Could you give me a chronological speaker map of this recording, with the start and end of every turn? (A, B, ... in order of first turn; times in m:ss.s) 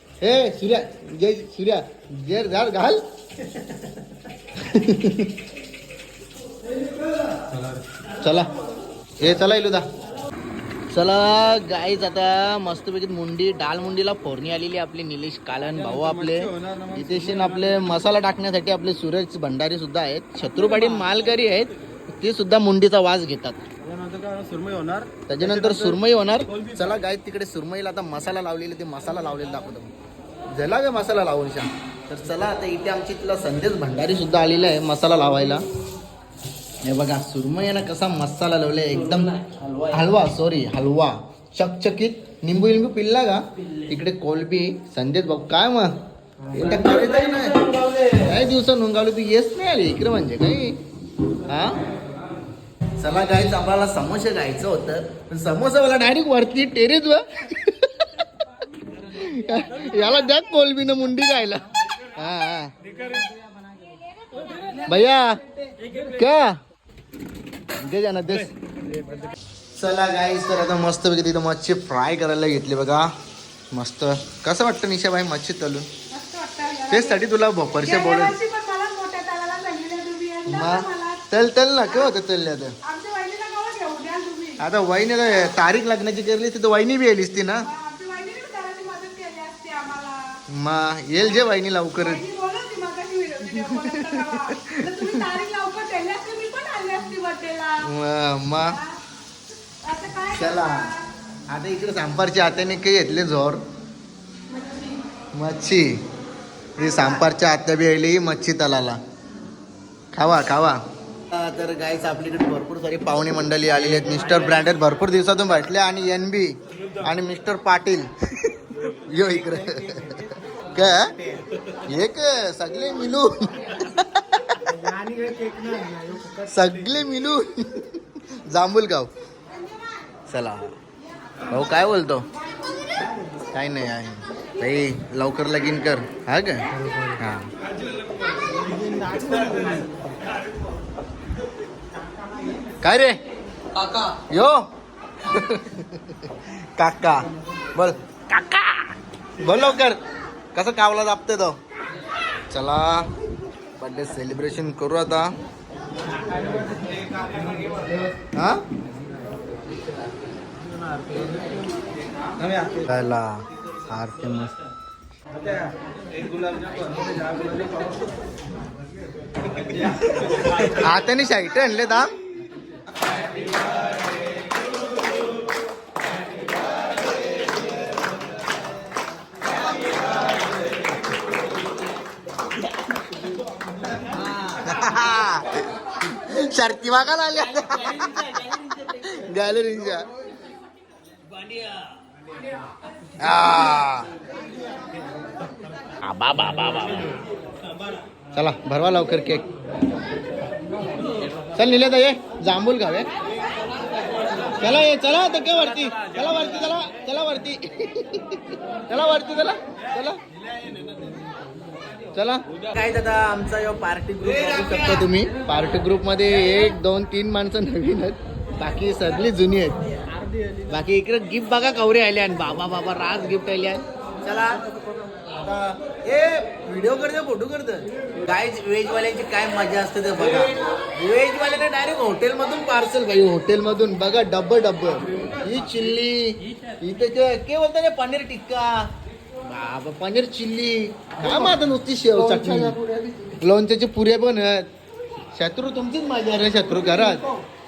0:00.2-0:03.0 A
0:04.6-0:05.4 A
0:08.2-0:08.5 A
0:09.2-0:09.8 A
0:10.9-0:23.6 A
0:15.8-0:17.8 B
0:23.8-0:25.1 B
0:25.3-0:29.9 A
0:30.5-0:35.7 A
0:36.8-0:39.4 A
0:39.1-0:39.9 B
0:39.9-0:45.9 A
0:46.4-0:48.3 B
0:46.5-0:47.6 A
0:48.2-0:50.8 A
0:51.5-0:51.8 A
0:53.0-0:58.3 A
0:59.1-1:02.7 A
1:04.8-1:05.4 A
1:05.9-1:06.6 A
1:07.8-1:08.5 A
1:09.7-1:13.1 A
1:13.7-1:15.9 A
1:16.1-1:17.2 C
1:16.9-1:18.4 A
1:17.8-1:21.2 C
1:20.5-1:22.8 A
1:22.8-1:24.6 C
1:24.6-1:27.7 A
1:27.6-1:30.2 C
1:30.5-1:32.2 A
1:32.0-1:37.9 C
1:33.5-1:35.4 A
1:37.8-1:38.8 A
1:39.8-1:41.0 C
1:40.3-1:41.0 A
1:41.5-1:43.6 A
1:45.3-1:45.9 A
1:46.8-1:49.0 A
1:50.1-2:01.1 A
2:01.8-2:04.8 A
2:06.2-2:09.1 A
2:10.3-2:10.7 A
2:11.5-2:12.3 A
2:13.5-2:17.5 A
2:19.1-2:19.9 B
2:22.8-2:23.2 A
2:23.8-2:24.7 A
2:25.2-2:30.0 A
2:30.6-2:31.6 A
2:32.5-2:33.1 A
2:33.8-2:35.3 A
2:38.3-2:38.6 A
2:42.4-2:42.7 B
2:42.8-2:44.6 A
2:46.2-2:48.0 B
2:50.2-2:52.1 A
3:04.1-3:10.1 A
3:13.2-3:14.1 A
3:16.0-3:17.2 A
3:18.3-3:19.5 A
3:21.6-3:23.1 A
3:24.5-3:30.2 A
3:32.1-3:39.8 A
3:40.7-3:44.6 A
3:45.3-3:58.7 A
3:59.4-4:04.7 A
4:05.4-4:07.2 A